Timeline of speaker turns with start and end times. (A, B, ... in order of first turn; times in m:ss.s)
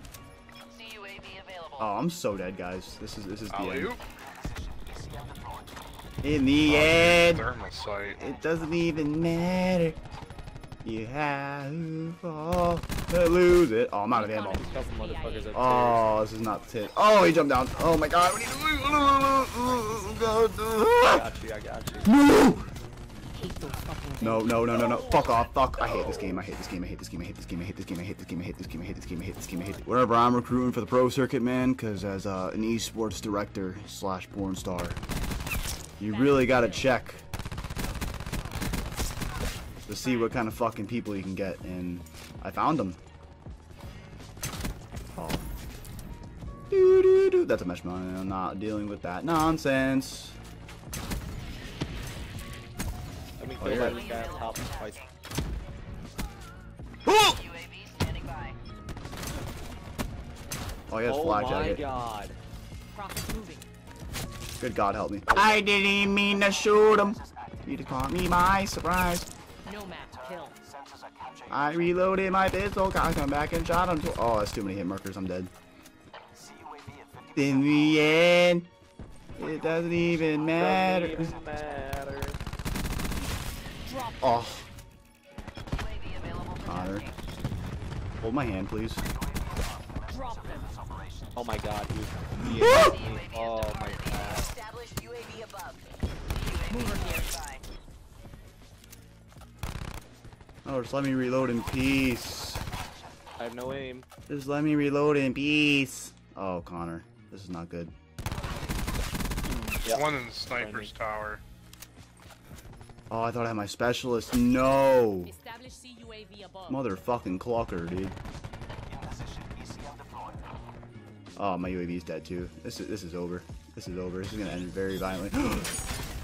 0:00.7-0:01.8 A
0:01.8-0:04.0 B
0:03.5-0:04.0 C
0:06.2-0:07.5 B
0:06.7-0:08.2 C
0:08.2-0:10.0 B
0:10.8-0:14.7 B
0:14.1-0:15.5 D
0:14.6-0:16.0 E
0:15.5-0:21.2 B
0:21.0-0:22.1 E
0:22.1-0:22.7 B
0:23.4-0:24.7 D
0:24.2-0:35.0 B
0:36.0-0:37.2 B
0:36.0-0:36.9 D
0:39.9-0:43.0 B
0:45.1-0:45.5 B
0:46.7-0:50.4 B
0:53.4-0:55.0 E
0:53.6-0:54.2 B
0:53.6-0:55.1 A
0:57.1-0:57.4 B
0:57.3-0:58.6 A
1:00.9-1:01.8 B
1:01.1-1:02.4 E
1:02.9-1:03.7 D
1:04.6-1:09.3 B
1:05.3-1:05.6 E
1:09.6-1:10.6 D
1:11.5-1:15.5 B
1:17.3-1:18.7 B
1:19.4-1:21.4 B
1:20.5-1:22.4 E
1:23.8-1:24.3 D
1:24.2-1:24.7 B
1:25.8-1:27.2 A
1:26.6-1:27.1 B
1:28.2-1:29.0 B
1:30.1-1:30.8 D
1:31.4-1:34.5 E
1:32.4-1:33.0 B
1:32.7-1:37.6 A
1:36.7-1:37.3 D
1:40.6-1:42.7 B
1:43.4-1:44.1 E
1:44.3-1:48.0 B
1:49.8-1:50.9 E
1:49.9-1:51.4 C
1:53.1-1:55.3 B
1:55.3-1:56.8 D
1:56.7-1:58.2 B
2:01.4-2:05.8 B